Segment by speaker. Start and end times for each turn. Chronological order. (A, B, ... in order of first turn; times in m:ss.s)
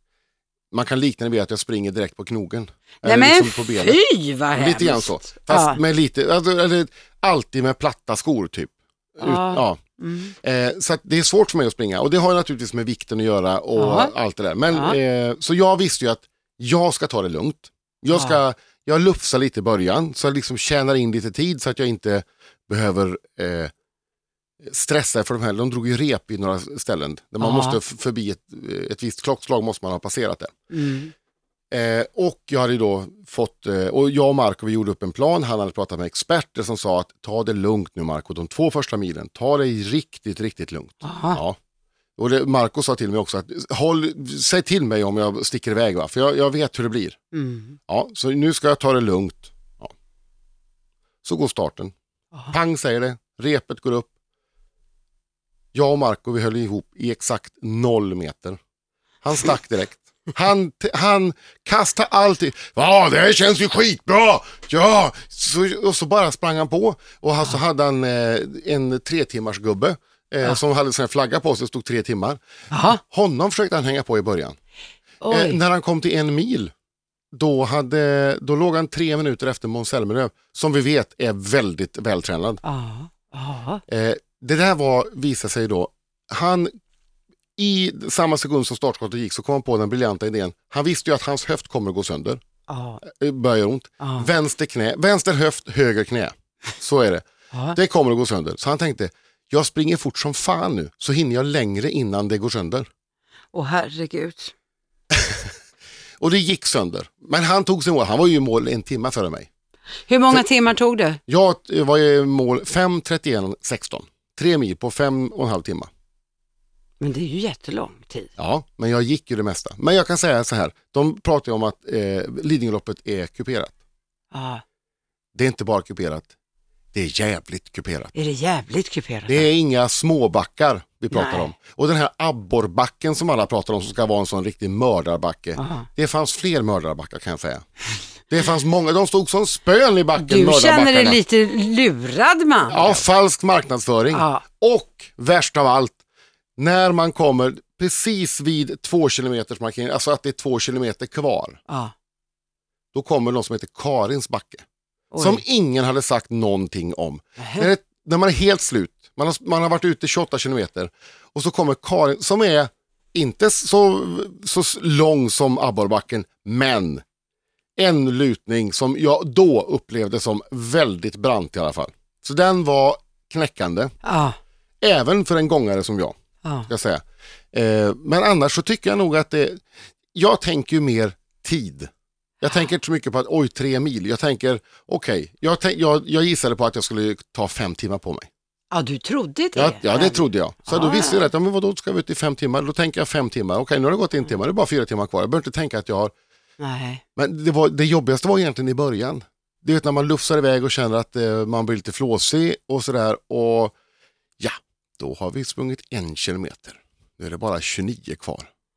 0:00.7-0:04.0 A
0:03.0-0:05.8 B
0:04.6-0:09.8 A
0:09.2-0:10.3 B
0:10.4-0:23.7 A
0:13.8-0:14.1 B
0:14.7-0:15.0 B
0:18.1-0:18.4 B
0:24.6-0:30.6 A
0:27.4-0:27.8 B
0:30.7-0:31.1 B
0:31.7-0:41.6 A
0:41.0-0:41.4 B
0:42.2-0:47.2 A
0:47.3-0:47.8 B
0:47.9-0:49.9 A
0:51.2-0:51.9 A
0:52.5-0:54.1 A
0:55.7-0:58.6 A
0:59.2-1:14.6 A
1:12.7-1:13.0 B
1:15.2-1:15.6 B
1:15.3-1:16.7 A
1:17.3-1:22.6 A
1:22.6-1:23.8 B
1:23.9-1:26.7 A
1:27.6-1:32.4 A
1:32.7-1:33.0 B
1:33.0-1:42.9 A
1:34.0-1:34.3 B
1:37.5-1:37.8 B
1:43.5-1:44.5 B
1:46.2-1:49.5 A
1:50.1-1:51.2 B
1:51.3-1:55.9 A
1:57.0-1:58.3 B
1:58.4-2:03.8 A
2:04.3-2:04.6 B
2:05.4-2:06.3 A
2:06.9-2:08.1 A
2:08.1-2:09.5 B
2:09.3-2:17.7 A
2:11.1-2:11.5 B
2:15.6-2:15.9 B
2:18.3-2:21.2 A
2:20.2-2:23.0 B
2:22.7-2:26.0 A
2:24.1-2:24.4 B
2:26.6-2:31.6 A
2:31.7-2:31.9 B
2:32.9-2:34.6 A
2:35.1-2:35.4 B
2:35.2-2:47.0 A
2:37.4-2:37.7 B
2:47.8-2:53.9 A
2:54.0-2:54.4 B
2:54.8-2:59.6 A
2:56.4-2:56.7 B
3:00.1-3:01.9 A
3:02.4-3:08.3 A
3:08.7-3:11.3 B
3:09.6-3:16.1 A
3:16.6-3:17.0 B
3:17.2-3:23.7 A
3:24.4-3:28.5 A